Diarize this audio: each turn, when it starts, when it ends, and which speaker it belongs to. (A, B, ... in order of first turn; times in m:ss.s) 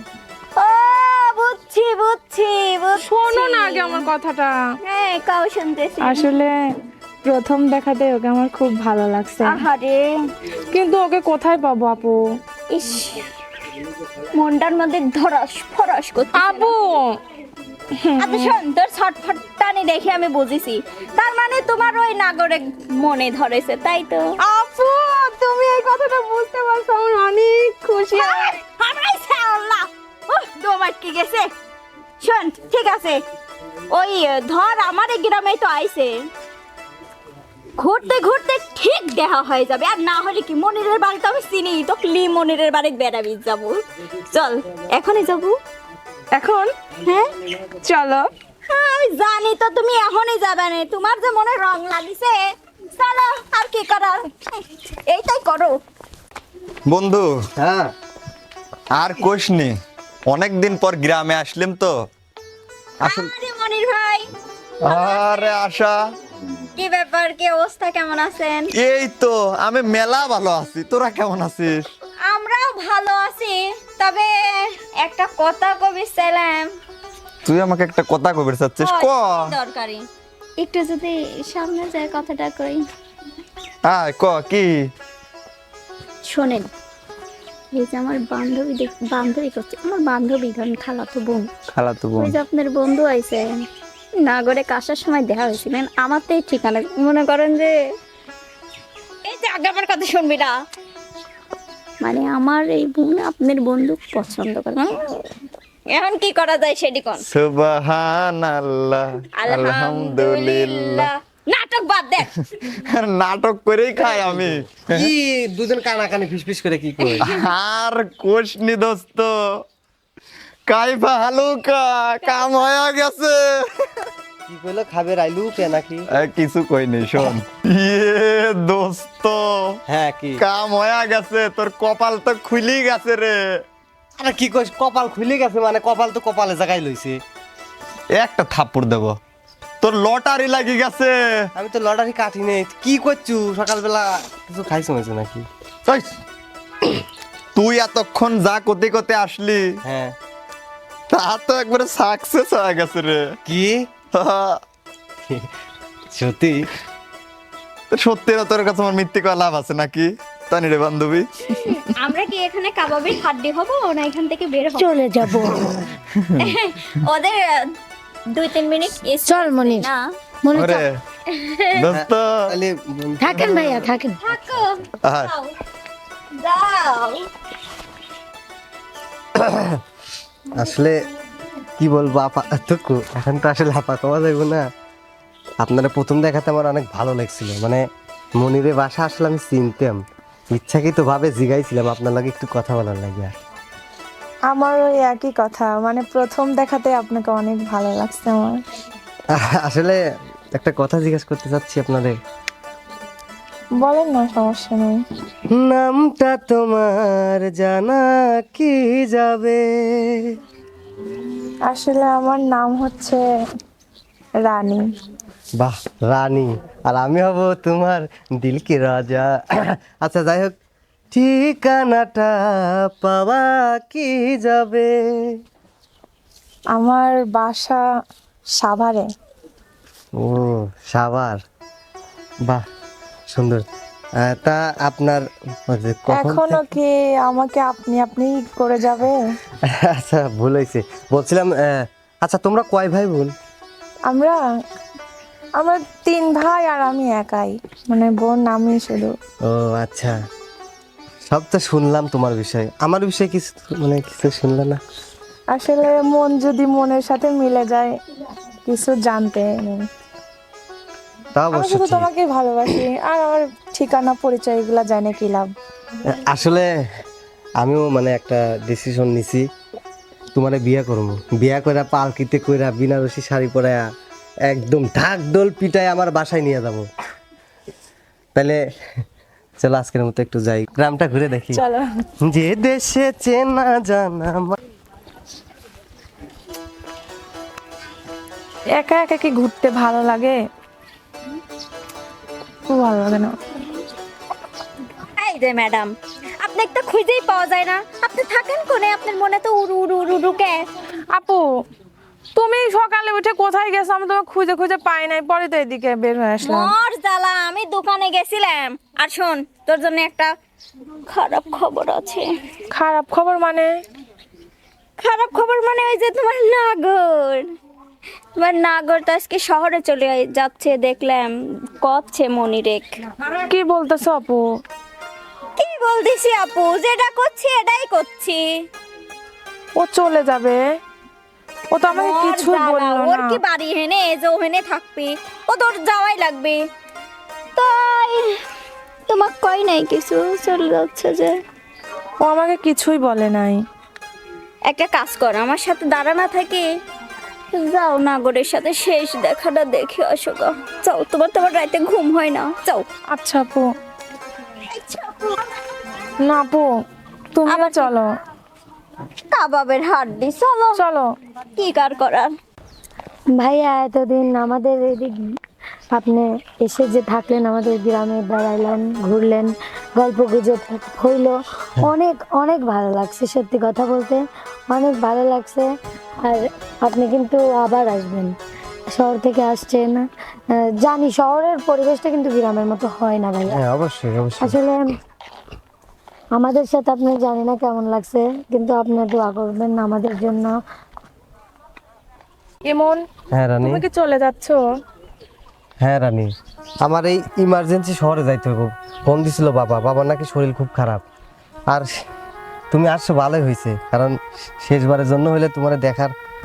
0:00.6-0:04.1 A
0:03.0-0:04.6 B
0:04.8-0:06.3 A
0:06.0-0:06.5 B
0:07.2-0:09.6 B
0:09.4-0:10.1 A
0:10.7-0:12.2 B
0:12.7-0:13.2 A
0:14.3-0:16.7 A
0:16.3-0:17.1 B
0:18.0-0:18.6 B
0:18.2-0:24.4 A
0:24.4-0:28.4 B
0:27.8-0:31.5 A
0:32.2-0:33.2 A
0:33.9-0:36.1 A
0:37.8-0:45.6 A
0:46.3-0:46.7 B
0:47.8-0:48.2 B
0:48.7-0:55.7 A
0:56.9-0:57.3 C
0:57.6-0:57.9 D
0:59.0-0:59.7 C
1:00.3-1:01.9 C
1:03.0-1:04.2 A
1:03.0-1:03.3 C
1:04.8-1:05.6 A
1:04.8-1:06.0 C
1:06.8-1:08.7 A
1:08.8-1:11.9 C
1:12.2-1:16.7 A
1:17.4-1:19.5 C
1:18.8-1:20.0 A
1:20.6-1:22.8 A
1:23.8-1:24.7 C
1:26.2-1:26.7 A
1:27.7-1:31.5 A
1:31.7-1:32.4 C
1:32.2-1:33.4 A
1:34.2-1:37.7 A
1:39.2-1:40.5 A
1:42.0-1:45.0 A
1:45.9-1:47.2 A
1:47.2-1:51.1 C
1:49.4-1:52.3 A
1:52.6-1:55.1 C
1:54.2-1:57.2 D
1:57.2-1:59.3 C
2:00.7-2:03.6 C
2:04.5-2:06.0 D
2:06.1-2:09.4 C
2:09.9-2:10.4 D
2:10.4-2:13.4 C
2:14.2-2:17.2 D
2:18.2-2:19.1 C
2:19.8-2:21.1 C
2:21.6-2:25.4 D
2:27.6-2:29.6 C
2:29.8-2:30.1 D
2:31.1-2:33.3 C
2:33.4-2:33.8 D
2:34.1-2:34.6 C
2:36.1-2:36.6 D
2:37.9-2:41.3 C
2:41.5-2:44.9 A
2:44.8-2:45.8 E
2:46.4-2:47.7 A
2:48.3-2:50.0 A
2:49.2-2:49.9 E
2:50.4-2:50.8 E
2:50.5-2:51.0 C
2:51.3-2:51.8 A
2:51.8-2:52.5 C
2:51.9-2:53.8 D
2:53.2-2:54.2 E
2:54.2-2:55.5 A
2:55.0-2:55.3 C
2:56.4-2:57.2 A
2:59.4-2:59.8 D
3:00.6-3:01.0 D
3:01.8-3:04.6 D
3:05.6-3:07.8 D
3:08.4-3:10.0 D
3:10.5-3:13.3 D
3:14.5-3:18.6 B
3:19.3-3:20.0 D
3:20.5-3:22.1 D
3:23.8-3:25.0 B
3:25.5-3:30.2 D
3:31.7-3:33.2 B
3:34.4-3:34.8 B
3:35.6-3:40.5 D
3:41.1-3:44.9 D
3:46.7-3:47.8 B
3:48.6-3:49.0 B
3:50.2-3:51.4 D
3:53.3-3:53.6 D
3:54.2-3:56.6 D
3:56.1-3:59.2 B
3:59.6-4:03.3 D
4:04.1-4:04.4 B
4:05.6-4:09.1 B
4:09.5-4:10.2 D
4:11.3-4:14.8 D
4:15.5-4:17.9 B
4:18.6-4:19.8 B
4:21.3-4:22.1 D
4:21.5-4:25.5 B
4:26.1-4:26.7 D
4:27.6-4:29.4 D
4:30.3-4:33.8 D
4:34.5-4:36.8 D
4:39.6-4:41.6 D
4:41.6-4:41.8 B
4:42.3-4:44.6 D
4:48.8-4:50.4 B
4:52.7-4:53.3 B
4:55.2-5:00.6 A
5:01.1-5:01.5 B
5:02.3-5:06.7 B
5:06.4-5:10.3 A
5:11.1-5:12.3 A
5:12.7-5:13.7 B
5:15.0-5:17.4 A
5:18.4-5:22.8 A
5:23.5-5:24.4 B
5:25.6-5:28.4 A
5:29.8-5:30.6 B
5:31.7-5:33.4 B
5:31.9-5:36.6 A
5:37.6-5:38.3 A
5:39.1-5:41.3 A
5:42.2-5:43.6 B
5:44.7-5:46.7 A
5:47.5-5:52.8 A
5:53.1-5:53.7 B
5:54.6-5:55.4 A
5:56.2-5:56.7 B
5:57.3-5:58.1 B
5:57.4-5:57.9 A
5:59.3-6:00.8 A
6:00.8-6:01.1 B
6:01.6-6:02.3 A
6:03.3-6:05.2 E
6:05.9-6:15.7 E
6:16.2-6:18.3 E
6:18.9-6:23.6 E
6:23.5-6:24.6 D
6:24.4-6:24.9 E
6:26.3-6:30.6 E
6:32.6-6:33.0 B
6:33.3-6:33.8 D
6:33.6-6:34.6 B
6:35.8-6:36.3 D
6:36.8-6:41.0 D
6:42.7-6:46.1 D